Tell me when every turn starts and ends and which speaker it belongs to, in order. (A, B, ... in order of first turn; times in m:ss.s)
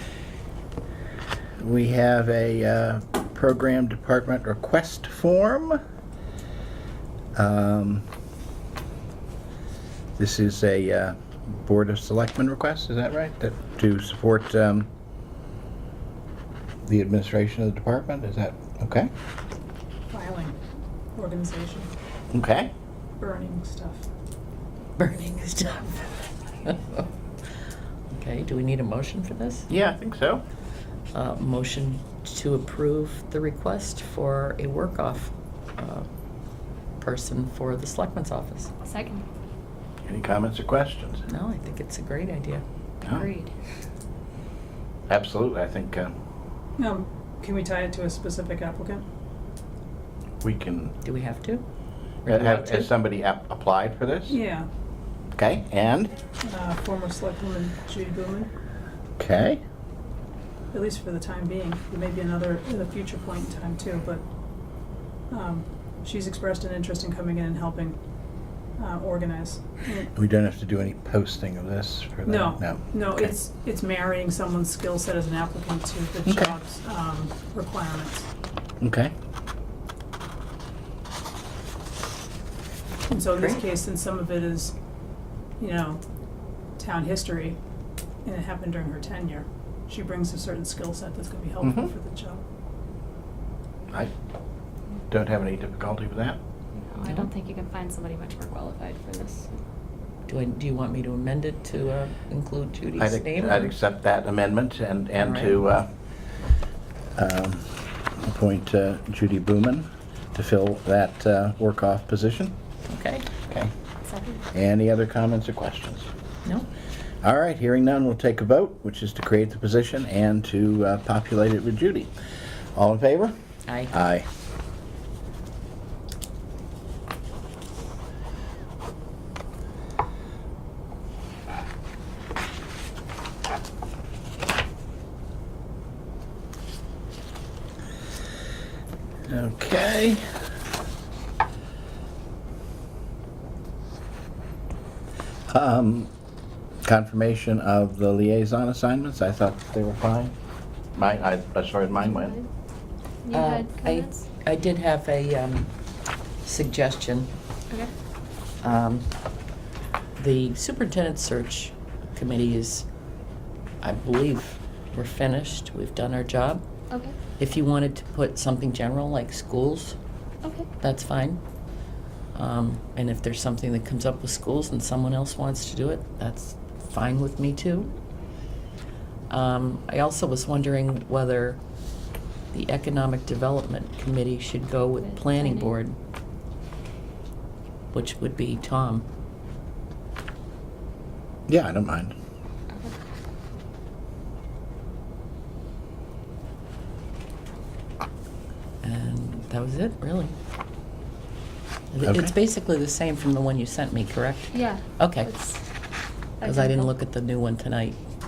0:01.6-0:05.8 A
0:07.3-0:08.0 A
0:10.2-0:14.9 A
0:16.8-0:19.1 A
0:20.1-0:20.6 B
0:21.1-0:21.9 B
0:22.3-0:22.7 A
0:23.2-0:24.0 B
0:25.0-0:26.0 C
0:26.6-0:27.0 C
0:28.1-0:29.6 C
0:29.7-0:30.4 A
0:31.1-0:36.1 C
0:37.0-0:38.7 C
0:38.8-0:39.2 D
0:40.0-0:41.3 A
0:41.3-0:42.6 C
0:43.0-0:43.5 D
0:45.1-0:46.1 A
0:46.8-0:49.0 B
0:50.4-0:50.9 A
0:51.0-0:51.6 C
0:52.2-0:52.9 C
0:52.2-0:54.4 A
0:54.3-0:54.7 B
0:55.4-0:56.1 A
0:56.4-0:58.5 B
0:59.2-0:59.6 A
1:00.7-1:04.2 B
1:05.3-1:08.0 B
1:08.8-1:10.1 B
1:10.1-1:13.3 A
1:12.2-1:18.3 B
1:16.2-1:16.5 A
1:18.8-1:19.1 A
1:23.1-1:24.7 B
1:25.6-1:26.0 B
1:26.8-1:27.6 B
1:28.2-1:32.4 B
1:31.6-1:31.9 A
1:35.1-1:36.4 A
1:36.8-1:39.6 D
1:37.0-1:37.3 C
1:40.3-1:43.7 C
1:43.0-1:45.9 A
1:45.2-1:45.6 C
1:47.2-1:52.5 A
1:52.9-1:53.3 C
1:54.1-1:54.4 D
1:54.5-1:56.1 A
1:57.2-2:02.1 A
2:02.7-2:03.3 A
2:03.7-2:03.9 C
2:03.9-2:04.3 A
2:19.3-2:20.2 A
2:25.5-2:26.1 A
2:26.8-2:30.3 A
2:30.9-2:32.4 A
2:32.0-2:32.4 D
2:33.2-2:34.2 D
2:33.3-2:35.7 C
2:36.4-2:37.3 C
2:38.6-2:39.1 C
2:40.2-2:42.8 C
2:43.8-2:46.6 C
2:46.9-2:47.2 D
2:47.4-2:50.0 C
2:50.4-2:50.7 D
2:50.8-2:51.4 C
2:52.3-2:57.9 C
2:59.3-3:01.6 C
3:02.5-3:06.0 C
3:05.0-3:05.7 D
3:07.9-3:09.0 C
3:11.5-3:12.1 A
3:18.8-3:20.3 C
3:21.9-3:25.3 C
3:22.0-3:22.3 A
3:24.5-3:25.6 D
3:26.4-3:26.9 D
3:26.4-3:28.0 C